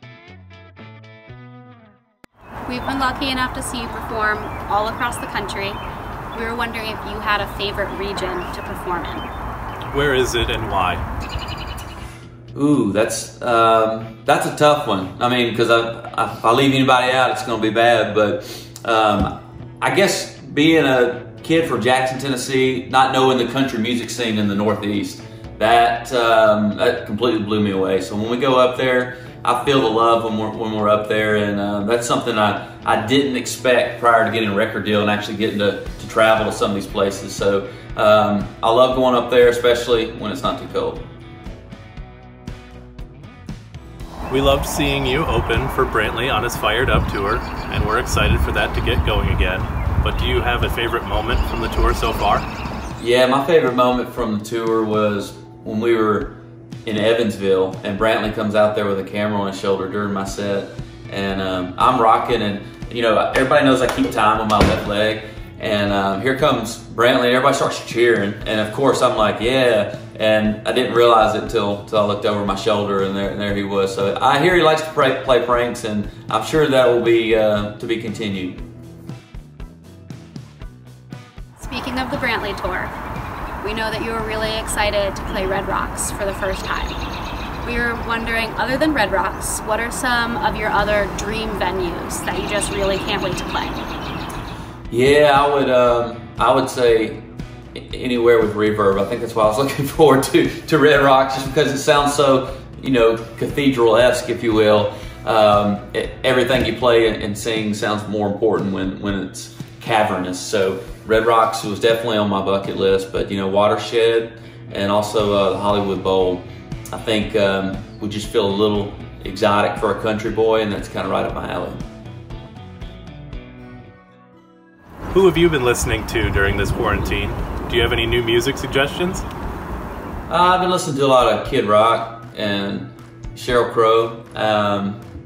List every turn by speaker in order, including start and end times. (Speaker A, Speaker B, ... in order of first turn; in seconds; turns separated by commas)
Speaker A: 2.7-5.8, Speaker A: 6.3-9.3, Speaker B: 9.9-11.0, Speaker C: 12.5-41.1, Speaker B: 44.3-52.5, Speaker C: 53.0-78.6, Speaker A: 81.6-83.0, Speaker A: 83.6-87.0, Speaker A: 87.6-93.8, Speaker C: 94.9-97.2, Speaker C: 97.8-121.8, Speaker B: 125.1-129.2, Speaker C: 130.3-135.0